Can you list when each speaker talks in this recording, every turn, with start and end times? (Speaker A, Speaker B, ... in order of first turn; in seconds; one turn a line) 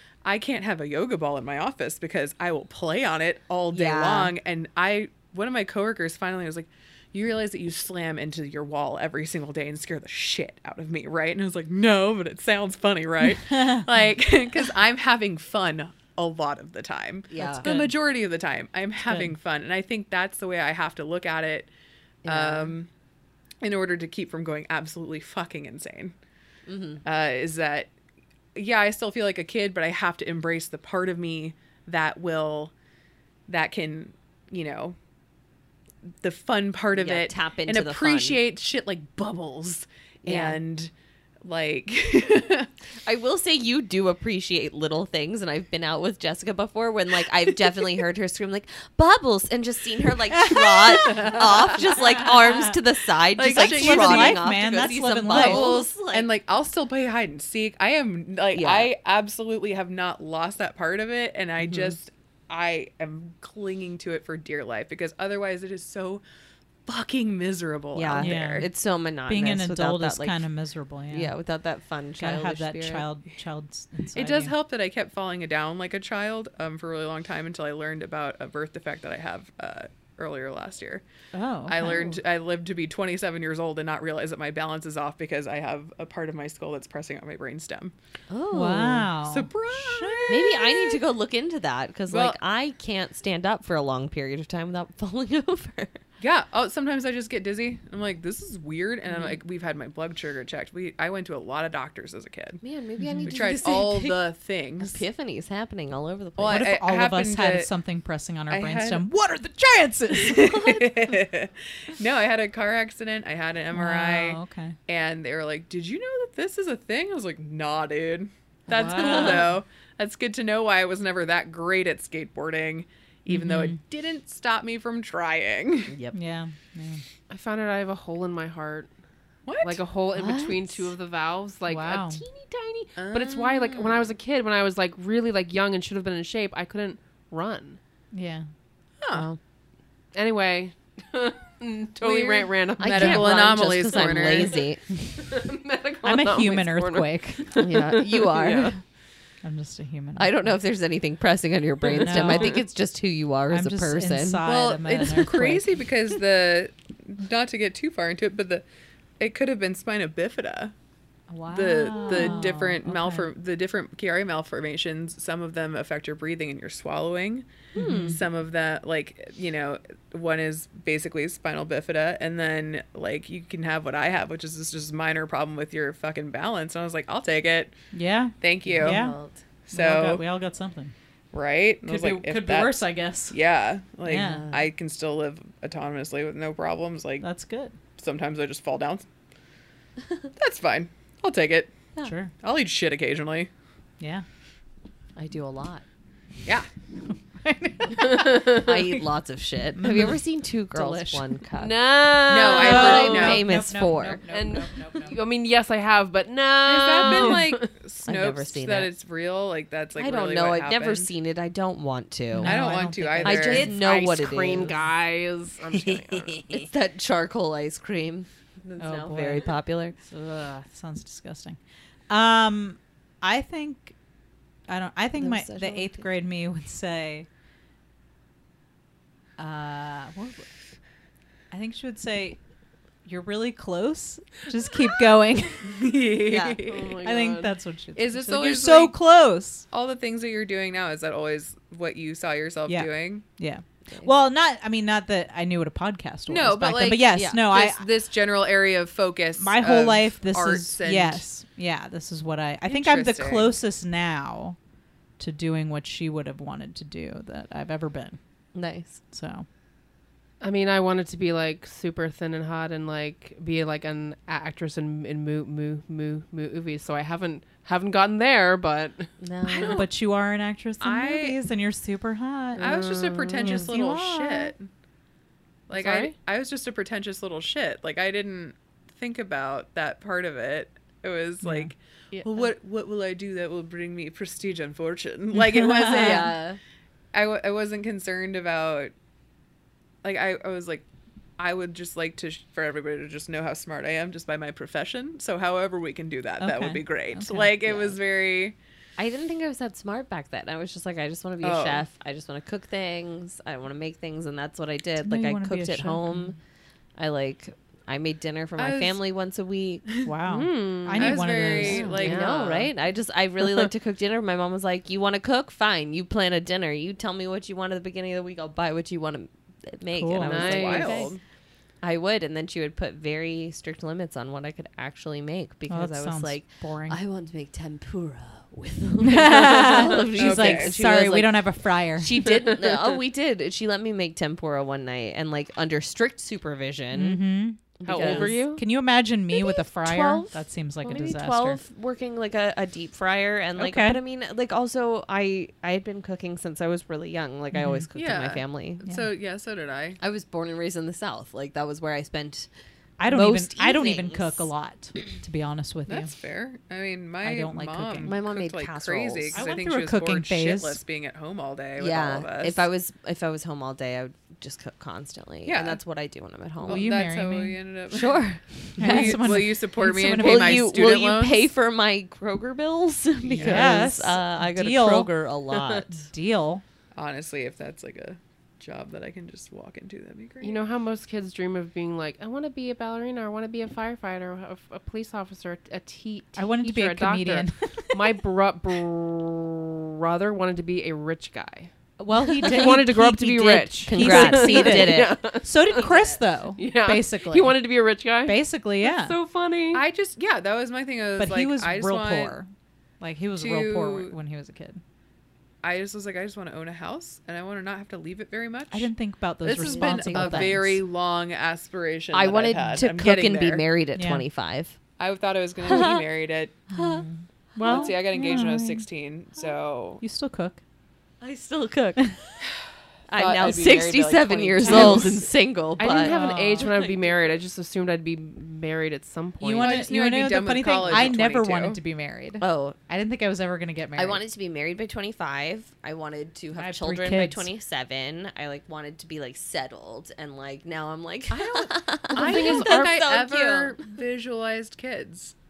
Speaker A: 0.2-21.7
Speaker B: 3.7-4.3
Speaker C: 13.2-13.9
Speaker B: 17.3-17.7
Speaker C: 17.4-17.9
Speaker C: 19.0-19.3
Speaker B: 22.2-22.7
Speaker A: 22.2-22.9
Speaker A: 23.6-26.1
Speaker B: 26.7-27.0
Speaker A: 27.0-27.9
Speaker A: 28.6-32.7
Speaker A: 33.5-35.0
Speaker A: 36.2-40.9
Speaker B: 36.9-38.4
Speaker B: 40.2-40.6
Speaker A: 41.4-42.7
Speaker B: 43.0-56.3
Speaker C: 50.3-51.4
Speaker C: 52.2-52.7
Speaker C: 53.4-55.8
Speaker A: 53.5-54.4
Speaker A: 55.3-66.2
Speaker B: 58.5-58.9
Speaker B: 61.6-62.0
Speaker A: 66.9-68.7
Speaker B: 67.9-70.4
Speaker C: 68.2-68.7
Speaker C: 69.3-71.3
Speaker B: 71.1-73.1
Speaker C: 72.2-74.5
Speaker A: 74.2-81.0
Speaker C: 81.3-82.2
Speaker A: 81.7-87.9
Speaker B: 88.3-89.1
Speaker C: 88.5-90.4
Speaker A: 89.2-91.0
Speaker B: 90.3-96.0
Speaker A: 92.1-92.4
Speaker A: 96.2-102.6
Speaker B: 99.1-99.4
Speaker B: 102.6-104.2
Speaker C: 103.0-103.3
Speaker A: 103.2-105.0
Speaker B: 104.8-106.7
Speaker A: 106.4-107.7
Speaker C: 106.5-110.6
Speaker A: 108.5-109.0
Speaker A: 110.1-126.0
Speaker C: 113.7-114.8
Speaker C: 118.7-119.5
Speaker B: 118.9-119.5
Speaker C: 123.3-123.8
Speaker C: 126.1-127.0
Speaker D: 127.3-128.9
Speaker A: 129.5-129.8
Speaker D: 129.6-137.8
Speaker B: 130.2-130.8
Speaker C: 131.7-132.2
Speaker A: 133.0-134.1
Speaker C: 138.1-138.4
Speaker A: 139.0-139.3
Speaker B: 139.1-139.4
Speaker D: 140.1-148.7
Speaker A: 142.0-144.5
Speaker B: 142.8-144.8
Speaker C: 146.0-147.5
Speaker B: 147.6-148.8
Speaker C: 149.4-150.5
Speaker B: 150.2-154.5
Speaker D: 151.9-152.5
Speaker C: 152.0-152.7
Speaker C: 153.5-155.7
Speaker A: 154.4-158.7
Speaker A: 159.2-160.7
Speaker C: 161.3-163.3
Speaker A: 161.5-167.5
Speaker B: 162.0-162.6
Speaker C: 167.8-168.2
Speaker B: 167.8-168.2
Speaker A: 168.0-177.8
Speaker C: 177.9-179.2
Speaker A: 178.4-179.0
Speaker B: 178.6-179.4
Speaker A: 179.7-180.2
Speaker C: 179.7-180.9
Speaker A: 181.3-187.3
Speaker C: 181.8-183.4
Speaker C: 184.1-184.5
Speaker B: 184.1-184.7
Speaker C: 187.2-187.8
Speaker A: 188.0-189.1
Speaker A: 190.4-191.7
Speaker C: 192.0-192.3
Speaker A: 192.4-193.5
Speaker C: 194.0-194.2
Speaker B: 195.2-195.8
Speaker C: 197.1-198.7
Speaker B: 198.4-201.8
Speaker C: 199.8-200.2
Speaker C: 200.7-201.2
Speaker D: 201.6-203.3
Speaker A: 202.3-203.6
Speaker B: 202.3-204.2
Speaker C: 202.4-205.2
Speaker D: 204.3-207.7
Speaker A: 206.7-211.1
Speaker B: 208.1-208.9
Speaker B: 209.9-214.7
Speaker C: 212.3-213.8
Speaker A: 212.4-213.8
Speaker D: 213.5-216.4
Speaker B: 216.5-220.0
Speaker C: 218.8-221.6
Speaker C: 222.1-223.9
Speaker C: 224.7-227.3
Speaker B: 225.2-226.1
Speaker C: 229.4-230.5
Speaker C: 231.5-232.4
Speaker C: 233.1-235.7
Speaker A: 235.6-237.0
Speaker B: 236.2-236.6
Speaker D: 236.7-237.6
Speaker C: 237.0-239.7
Speaker A: 238.0-239.0
Speaker A: 239.7-243.2
Speaker C: 242.7-247.8
Speaker A: 246.3-251.3
Speaker C: 249.4-254.6
Speaker A: 252.7-253.5
Speaker C: 255.2-258.2
Speaker B: 258.5-259.0
Speaker C: 259.1-259.5
Speaker D: 260.4-269.1
Speaker B: 269.2-269.9
Speaker A: 269.5-269.9
Speaker C: 269.7-272.6
Speaker A: 270.8-271.4
Speaker A: 272.6-274.7
Speaker B: 272.6-273.5
Speaker D: 272.6-273.6
Speaker C: 273.4-274.5
Speaker A: 275.7-286.4
Speaker D: 275.7-276.1
Speaker C: 281.4-281.7
Speaker C: 285.8-286.3
Speaker B: 285.8-286.6
Speaker A: 287.1-288.9
Speaker A: 290.0-290.9
Speaker A: 291.4-298.6
Speaker C: 296.4-297.5
Speaker B: 297.6-298.0
Speaker B: 299.0-306.4
Speaker A: 301.4-301.8
Speaker C: 305.0-306.4
Speaker B: 307.0-309.9
Speaker A: 308.6-309.0
Speaker C: 310.0-311.9
Speaker D: 310.3-311.2
Speaker B: 310.9-321.1
Speaker A: 311.0-312.7
Speaker D: 311.9-312.7
Speaker C: 319.9-321.1
Speaker D: 320.3-321.0
Speaker A: 320.4-321.2
Speaker B: 321.8-331.4
Speaker C: 325.7-327.0
Speaker C: 329.0-332.3
Speaker A: 330.2-330.8
Speaker B: 331.9-337.2
Speaker D: 332.2-332.8
Speaker C: 336.9-341.6
Speaker B: 337.8-338.4
Speaker D: 337.9-338.6
Speaker B: 339.3-348.9
Speaker C: 343.6-344.0
Speaker C: 347.5-347.9
Speaker A: 348.0-350.0
Speaker B: 350.0-352.5
Speaker C: 353.0-356.1
Speaker B: 353.0-354.5
Speaker A: 355.9-362.6
Speaker C: 357.2-358.1
Speaker B: 358.0-359.4
Speaker C: 359.3-360.8
Speaker B: 361.8-366.9
Speaker A: 365.5-365.8
Speaker A: 366.6-368.2
Speaker C: 366.7-367.6
Speaker B: 367.9-369.3
Speaker C: 368.8-370.7
Speaker A: 368.8-371.5
Speaker B: 370.1-376.0
Speaker A: 373.3-373.8
Speaker C: 373.4-375.1
Speaker D: 375.5-375.8
Speaker C: 375.9-376.6
Speaker A: 376.9-380.6
Speaker D: 380.4-395.9
Speaker C: 386.4-388.1
Speaker C: 392.0-397.6
Speaker B: 393.8-395.2
Speaker B: 395.7-396.2
Speaker D: 396.6-399.9
Speaker C: 398.2-399.2
Speaker A: 399.7-402.4
Speaker C: 401.2-402.5
Speaker C: 403.0-404.8
Speaker A: 403.4-404.1
Speaker A: 405.6-408.9
Speaker C: 408.7-410.8
Speaker A: 409.4-413.6
Speaker B: 409.6-410.6
Speaker B: 412.1-414.8
Speaker C: 413.9-414.2
Speaker A: 415.0-416.6
Speaker B: 415.6-416.1
Speaker C: 416.7-418.9
Speaker B: 416.8-417.1
Speaker B: 417.6-417.9
Speaker A: 417.6-420.0
Speaker C: 420.0-420.6
Speaker B: 421.2-422.2
Speaker B: 423.1-426.2
Speaker A: 423.1-425.2
Speaker C: 424.7-425.0
Speaker D: 425.8-429.9
Speaker C: 426.0-426.7
Speaker B: 426.7-426.9
Speaker C: 429.4-434.2
Speaker A: 429.6-431.8
Speaker B: 430.9-431.1
Speaker B: 432.4-432.8
Speaker B: 434.0-443.9
Speaker C: 436.6-437.5
Speaker A: 441.3-445.3
Speaker D: 442.1-442.9